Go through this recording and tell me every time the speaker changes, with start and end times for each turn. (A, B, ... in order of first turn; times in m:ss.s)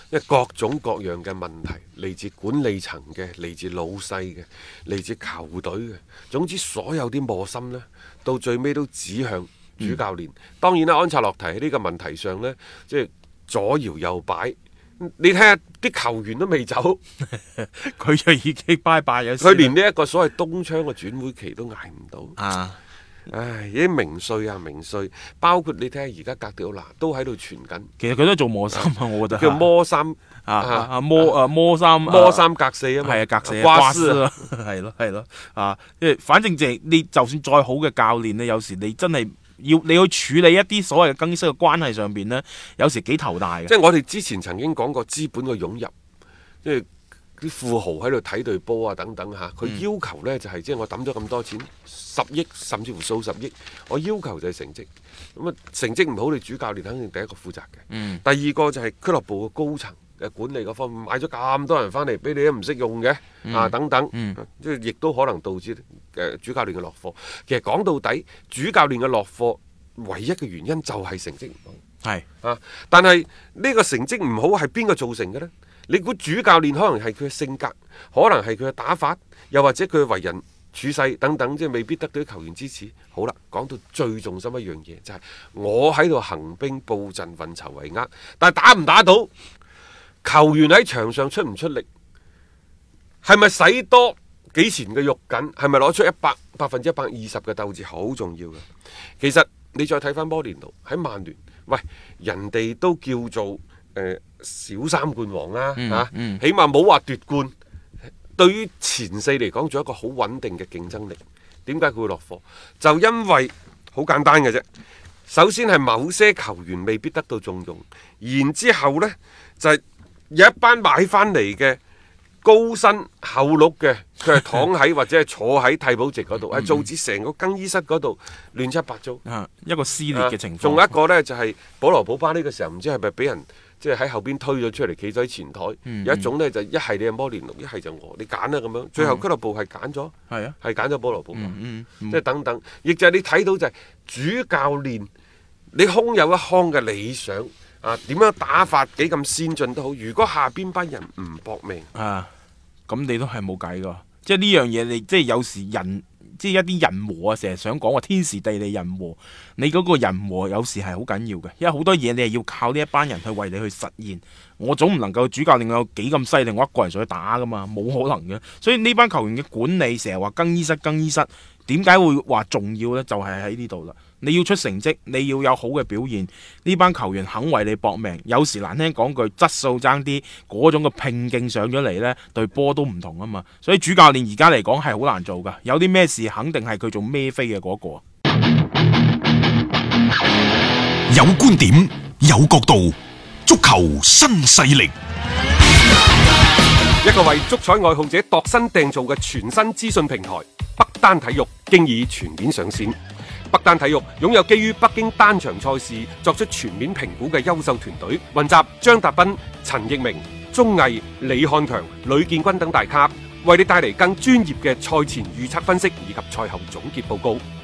0:00.1-0:17.0 A
0:17.3-0:19.7 B
0:19.4-0:22.4 A
0:22.4-0:22.8 B
0:23.3-0:27.9 A
0:28.0-0:29.6 B
0:28.7-0:31.4 A
0:30.5-0:32.4 B
0:32.0-0:34.2 A
0:33.0-0:43.7 B
0:43.7-0:45.9 A
0:47.4-1:11.8 A
0:57.9-0:58.2 B
1:03.4-1:04.4 B
1:12.4-1:29.3 A
1:30.2-1:31.8 A
1:33.2-1:38.6 A
1:39.2-1:47.5 A
1:45.8-1:46.4 B
1:48.4-1:54.6 A
1:55.3-2:01.8 A
2:02.4-2:09.2 A
2:06.6-2:06.8 B
2:09.2-2:10.9 B
2:10.1-2:25.1 A
2:15.8-2:16.3 B
2:19.0-2:19.2 B
2:20.3-2:20.6 B
2:21.3-2:22.2 B
2:25.7-2:31.9 A
2:31.9-2:32.3 B
2:32.9-3:08.0 B
3:11.1-3:12.9 C
3:13.4-3:14.9 C
3:17.0-3:23.0 A
3:23.5-3:37.4 A